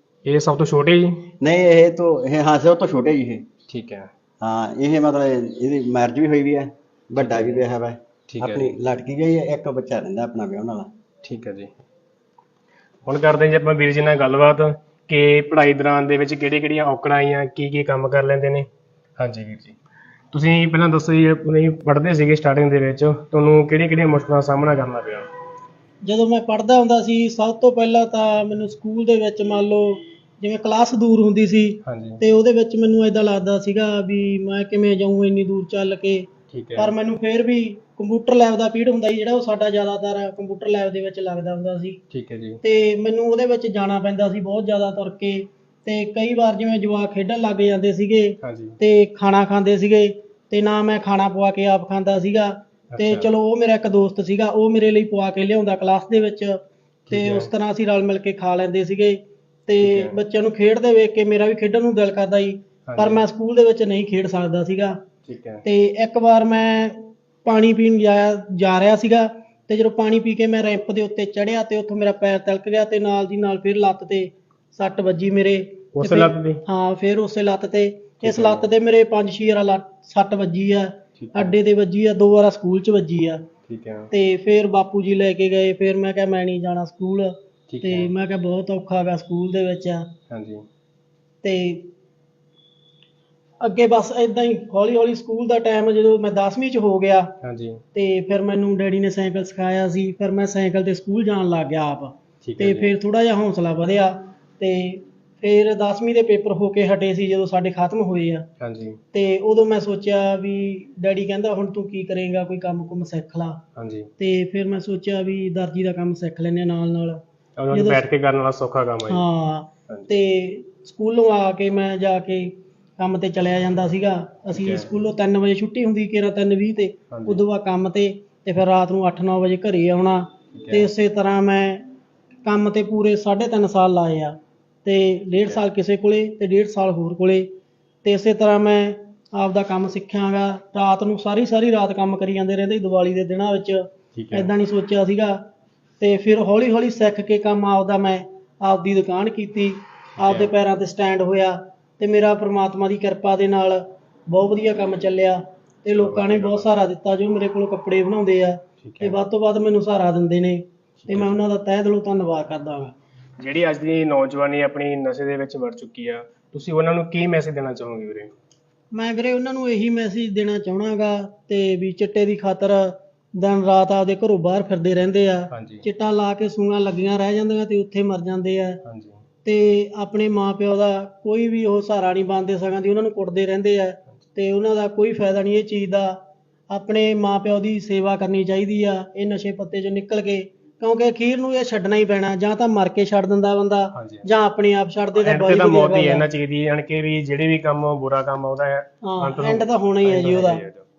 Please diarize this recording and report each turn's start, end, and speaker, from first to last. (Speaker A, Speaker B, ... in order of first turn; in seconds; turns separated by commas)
Speaker A: 0.3-1.3, Speaker B: 1.4-3.5, Speaker A: 3.7-4.1, Speaker B: 4.4-10.9, Speaker A: 7.2-7.6, Speaker A: 8.3-8.7, Speaker A: 11.2-11.7, Speaker A: 13.1-18.7, Speaker A: 19.2-19.8, Speaker A: 20.3-25.3, Speaker C: 26.0-42.0, Speaker A: 31.9-32.2, Speaker A: 36.5-36.9, Speaker A: 42.1-42.6, Speaker C: 42.6-56.6, Speaker A: 48.4-48.8, Speaker A: 52.9-53.3, Speaker A: 57.1-57.5, Speaker C: 57.1-65.0, Speaker A: 59.8-60.2, Speaker A: 62.9-63.2, Speaker A: 65.3-65.6, Speaker C: 65.7-83.5, Speaker A: 76.0-76.6, Speaker A: 78.2-78.7, Speaker A: 81.2-81.5, Speaker A: 83.7-84.1, Speaker C: 84.1-90.1, Speaker A: 87.7-88.1, Speaker A: 90.3-90.7, Speaker C: 91.4-91.9, Speaker C: 93.6-97.3, Speaker A: 97.4-97.8, Speaker C: 97.9-108.5, Speaker A: 102.4-102.9, Speaker A: 108.6-109.0, Speaker C: 109.1-113.6, Speaker A: 113.8-114.1, Speaker C: 114.2-118.1, Speaker A: 117.6-119.3, Speaker C: 119.1-131.9, Speaker A: 124.5-124.9, Speaker A: 127.1-127.4, Speaker A: 130.5-130.9, Speaker C: 132.4-137.5, Speaker A: 135.4-135.6, Speaker C: 138.0-145.4, Speaker A: 144.2-144.5, Speaker C: 146.0-162.9, Speaker A: 150.2-150.5, Speaker A: 155.9-156.7, Speaker A: 158.8-159.2, Speaker A: 161.0-161.4, Speaker A: 163.4-168.3, Speaker C: 168.9-178.8, Speaker A: 175.5-175.8, Speaker A: 178.8-179.2, Speaker C: 179.4-186.2, Speaker C: 186.7-196.3, Speaker A: 193.9-194.3, Speaker A: 195.2-200.8, Speaker C: 199.0-200.6